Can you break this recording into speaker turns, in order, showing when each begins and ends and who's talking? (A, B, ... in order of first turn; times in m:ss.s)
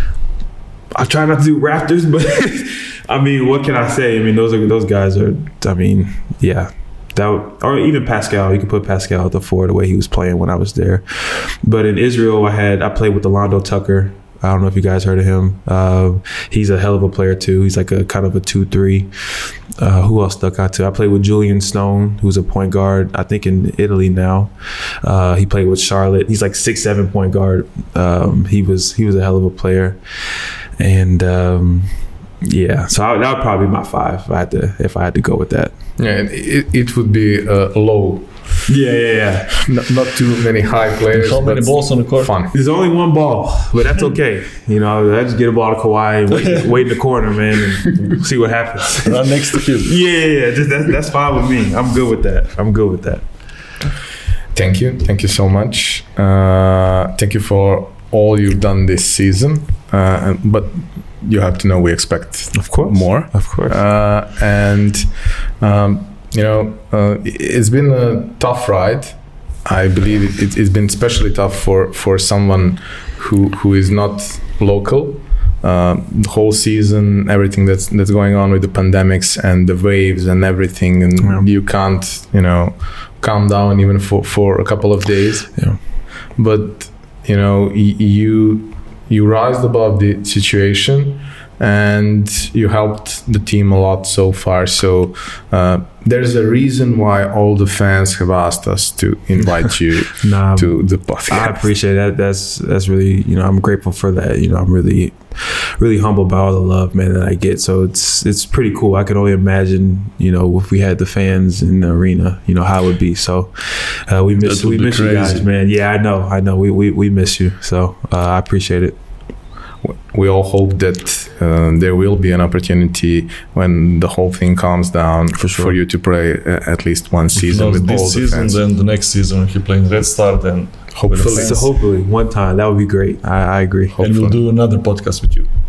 0:00.9-0:24.5 A
0:25.0-0:30.0 A
0:30.8-0:35.7 A
0:36.0-0:38.6 B
0:38.7-0:39.6 A
0:39.6-0:42.5 B
0:41.1-0:42.3 C
0:42.5-0:49.3 A
0:49.0-0:49.9 C
0:49.8-0:53.2 A
0:54.5-1:41.6 B
1:02.5-1:03.7 A
1:40.1-1:59.0 A
1:54.4-1:55.4 C
1:59.8-2:08.6 B
2:05.3-2:05.7 A
2:07.4-2:11.7 C
2:10.9-2:11.7 B
2:11.2-2:13.9 A
2:13.9-2:14.4 B
2:14.0-2:15.5 C